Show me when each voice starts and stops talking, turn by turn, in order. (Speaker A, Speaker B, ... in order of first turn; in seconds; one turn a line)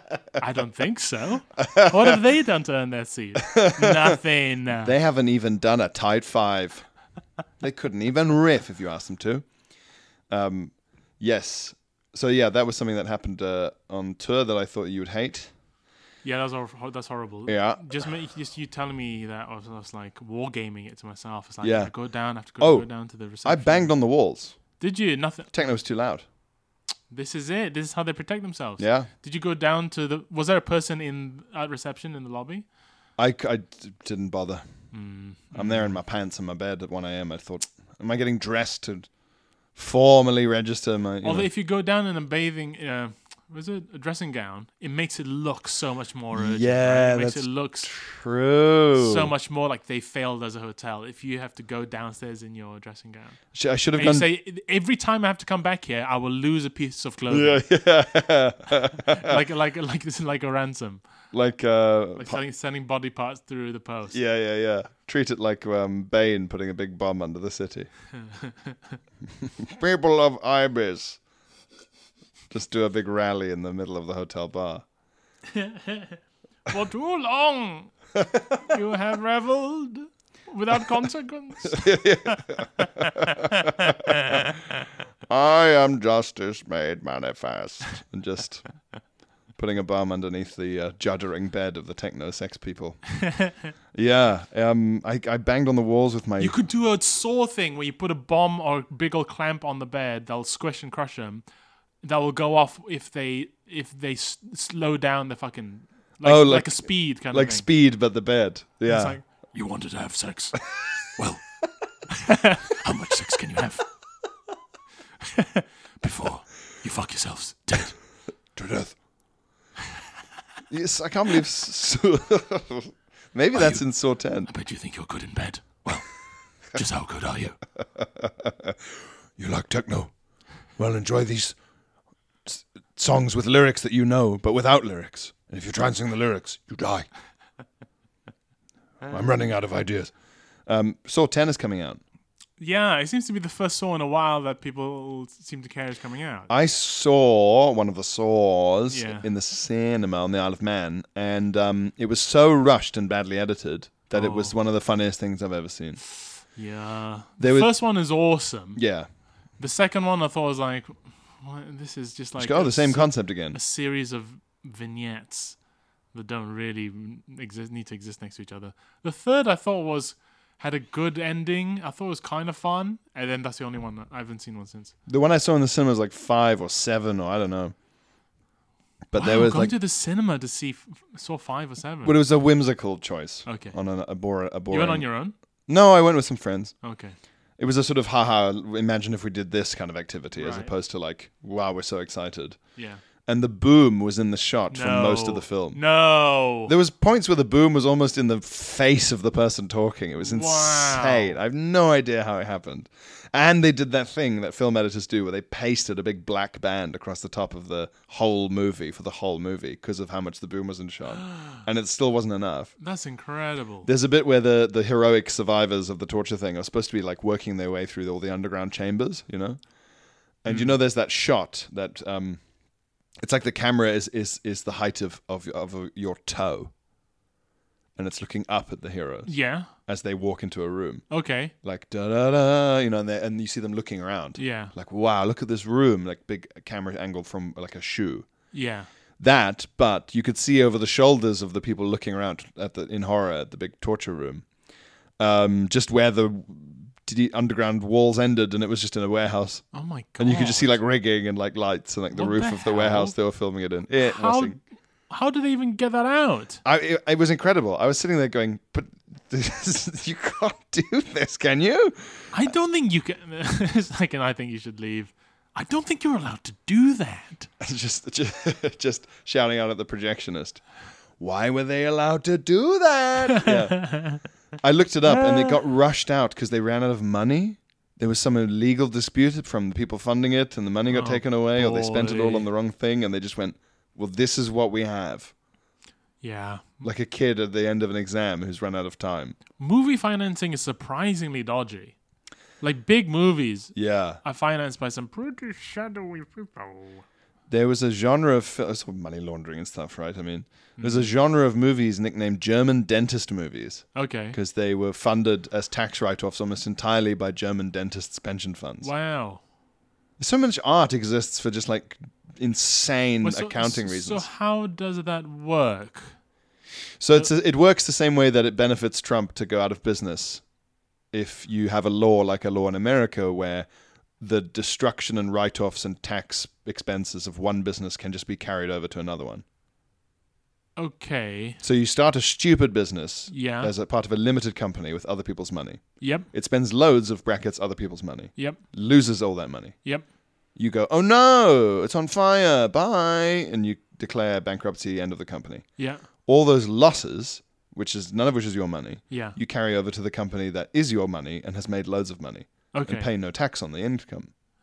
Speaker A: 0.4-4.9
Speaker B: 1.6-2.2
Speaker B: 3.4-4.2
Speaker B: 4.8-6.9
Speaker B: 7.6-9.5
Speaker B: 10.3-15.5
Speaker A: 16.2-23.9
Speaker B: 17.5-18.1
Speaker B: 21.6-21.9
Speaker B: 22.6-24.6
Speaker A: 24.8-25.5
Speaker B: 25.5-26.2
Speaker A: 27.1-32.6
Speaker B: 28.8-29.1
Speaker B: 33.2-34.7
Speaker A: 34.9-36.0
Speaker B: 35.5-39.1
Speaker B: 39.8-41.5
Speaker A: 41.2-47.9
Speaker B: 46.3-49.3
Speaker A: 49.0-53.4
Speaker B: 53.5-54.3
Speaker A: 53.9-57.7
Speaker B: 57.3-59.4
Speaker A: 59.1-61.0
Speaker B: 61.3-62.4
Speaker A: 62.2-64.2
Speaker B: 64.1-67.9
Speaker A: 68.2-69.0
Speaker B: 69.4-71.2
Speaker B: 72.5-74.8
Speaker A: 75.5-77.9
Speaker B: 78.2-78.5
Speaker A: 78.6-84.5
Speaker B: 81.6-84.4
Speaker B: 85.3-88.7
Speaker B: 89.5-93.0
Speaker A: 93.4-93.7
Speaker B: 93.9-96.5
Speaker A: 96.4-101.4
Speaker A: 102.0-107.7
Speaker B: 106.2-109.2
Speaker A: 108.9-110.6
Speaker A: 111.2-111.4
Speaker A: 112.1-113.9
Speaker A: 115.2-118.0
Speaker B: 118.5-119.0
Speaker B: 120.7-124.5
Speaker A: 123.5-123.8
Speaker A: 124.5-126.1
Speaker A: 126.7-127.6
Speaker B: 128.0-130.1
Speaker B: 130.8-131.6
Speaker B: 132.5-137.1
Speaker B: 139.1-140.1
Speaker B: 140.7-142.0
Speaker A: 142.6-146.5
Speaker B: 146.5-156.0
Speaker A: 148.9-149.3
Speaker A: 154.1-154.6
Speaker A: 156.5-158.8
Speaker B: 157.4-157.8
Speaker B: 158.8-159.1
Speaker A: 159.6-165.6
Speaker B: 162.4-163.6
Speaker A: 166.1-174.9
Speaker B: 175.1-177.8
Speaker B: 179.1-179.8
Speaker A: 179.2-182.2
Speaker B: 182.0-185.1
Speaker A: 183.5-183.8
Speaker A: 184.7-185.3
Speaker B: 185.7-186.8
Speaker A: 186.8-187.2
Speaker B: 187.6-192.6
Speaker A: 190.4-190.7
Speaker A: 192.8-193.0
Speaker B: 193.2-195.8
Speaker A: 194.7-196.7
Speaker B: 196.6-212.7
Speaker A: 200.2-201.4
Speaker A: 211.3-211.6
Speaker A: 212.8-213.9
Speaker B: 213.8-219.6
Speaker B: 220.4-222.4
Speaker A: 220.5-220.8
Speaker B: 223.2-226.7
Speaker B: 227.9-231.1
Speaker A: 229.2-229.7
Speaker A: 231.1-231.5
Speaker B: 231.6-238.3
Speaker A: 234.4-234.7
Speaker A: 238.5-238.9
Speaker B: 239.2-244.4
Speaker B: 245.2-249.7
Speaker A: 249.7-250.8
Speaker B: 250.2-254.6
Speaker A: 252.1-253.2
Speaker A: 254.0-256.6
Speaker B: 256.6-262.3
Speaker A: 262.3-267.5
Speaker B: 267.6-270.6
Speaker B: 271.2-285.3
Speaker A: 273.4-274.2
Speaker A: 275.1-275.6
Speaker A: 280.9-282.5
Speaker A: 286.2-286.8
Speaker B: 286.8-289.4
Speaker A: 289.6-291.9
Speaker A: 292.6-297.1
Speaker B: 293.7-294.2
Speaker B: 297.5-308.9
Speaker A: 300.8-301.1
Speaker A: 303.9-304.4
Speaker A: 308.8-309.4
Speaker B: 310.2-314.2
Speaker A: 313.2-316.1
Speaker B: 317.0-320.4
Speaker B: 321.1-323.7
Speaker B: 324.2-329.4
Speaker A: 330.8-331.6
Speaker B: 331.6-339.9
Speaker A: 333.3-333.7
Speaker A: 336.0-336.3
Speaker A: 338.4-338.6
Speaker B: 340.6-354.3
Speaker A: 345.8-346.1
Speaker A: 349.1-349.4
Speaker A: 352.7-353.1